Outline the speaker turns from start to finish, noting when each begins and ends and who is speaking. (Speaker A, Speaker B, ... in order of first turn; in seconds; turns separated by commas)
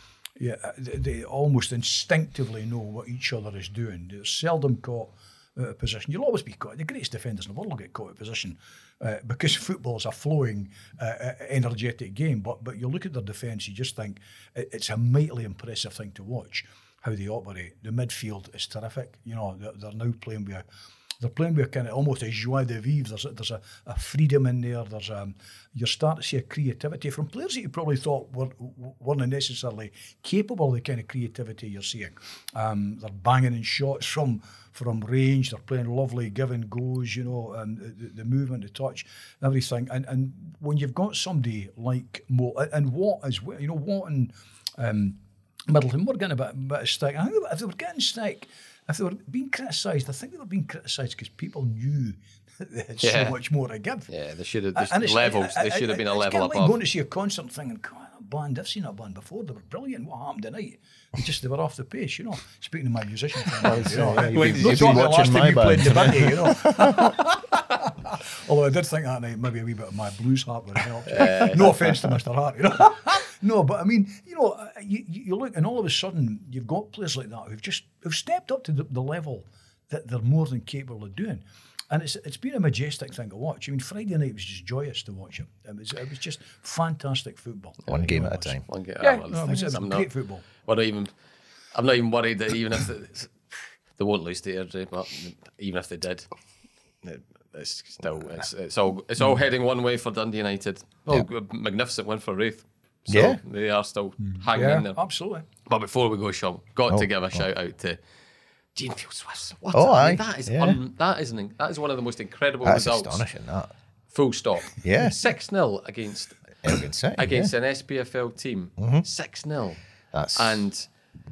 Speaker A: 0.4-20.6, Speaker A: 21.2-54.1, Speaker B: 53.0-53.4, Speaker B: 54.1-56.8, Speaker A: 54.7-90.5, Speaker C: 63.6-67.1, Speaker B: 64.2-65.4, Speaker B: 71.0-71.9, Speaker C: 87.9-88.6, Speaker B: 88.7-91.1, Speaker B: 91.7-96.3, Speaker B: 97.0-105.0, Speaker C: 103.1-103.4, Speaker A: 104.2-105.5, Speaker B: 105.7-108.0, Speaker C: 106.9-107.4, Speaker B: 108.7-113.2, Speaker C: 109.7-110.8, Speaker C: 112.6-113.7, Speaker B: 114.1-116.4, Speaker C: 114.8-115.2, Speaker C: 116.6-117.5, Speaker B: 117.2-119.8, Speaker C: 118.8-119.0, Speaker C: 120.1-120.7, Speaker B: 120.3-120.9